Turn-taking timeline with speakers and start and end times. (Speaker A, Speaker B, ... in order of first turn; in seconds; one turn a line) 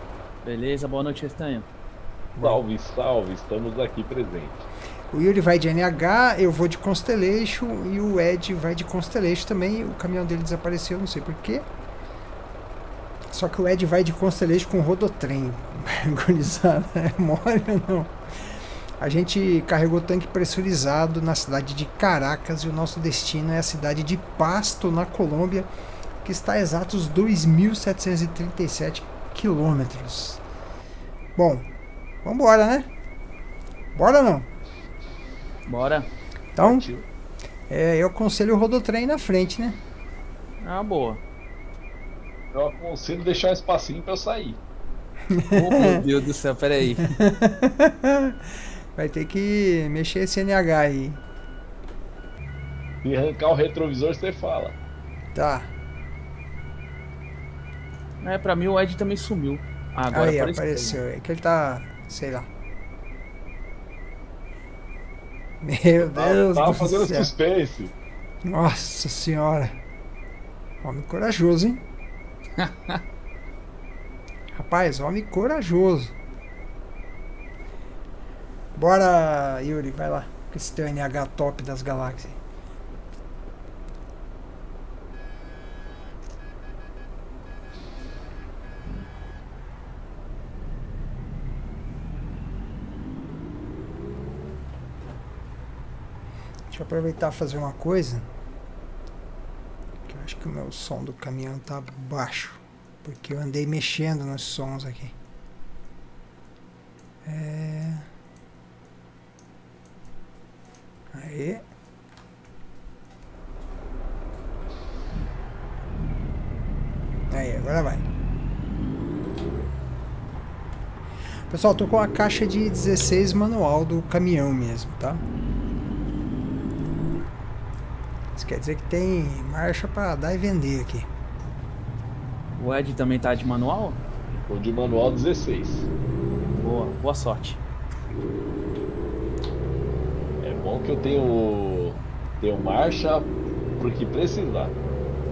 Speaker A: 0.4-1.7
Speaker B: 2.4-4.7
Speaker C: 5.1-11.7
Speaker C: 13.3-18.1
Speaker C: 19.0-25.7
Speaker C: 26.2-30.4
Speaker C: 31.4-31.7
Speaker C: 32.2-32.9
Speaker C: 34.0-34.5
Speaker A: 35.6-36.1
Speaker C: 36.5-36.9
Speaker B: 36.6-37.0
Speaker C: 37.7-39.8
Speaker A: 40.6-41.2
Speaker B: 42.5-44.6
Speaker C: 45.3-46.0
Speaker A: 45.5-47.1
Speaker C: 47.1-48.4
Speaker C: 49.0-51.2
Speaker B: 53.0-54.8
Speaker C: 55.3-55.7
Speaker A: 58.2-61.0
Speaker C: 60.1-62.5
Speaker C: 65.6-67.3
Speaker B: 66.0-67.9
Speaker C: 68.4-69.8
Speaker C: 70.8-71.8
Speaker A: 72.6-73.0
Speaker C: 74.5-76.1
Speaker C: 78.8-82.4
Speaker C: 96.7-98.3
Speaker C: 100.0-105.2
Speaker C: 107.2-108.1
Speaker C: 111.1-111.6
Speaker C: 117.3-118.0
Speaker C: 121.5-125.2
Speaker C: 128.3-131.1
Speaker A: 132.6-134.0
Speaker B: 134.3-135.9
Speaker A: 136.5-137.6
Speaker B: 140.4-144.8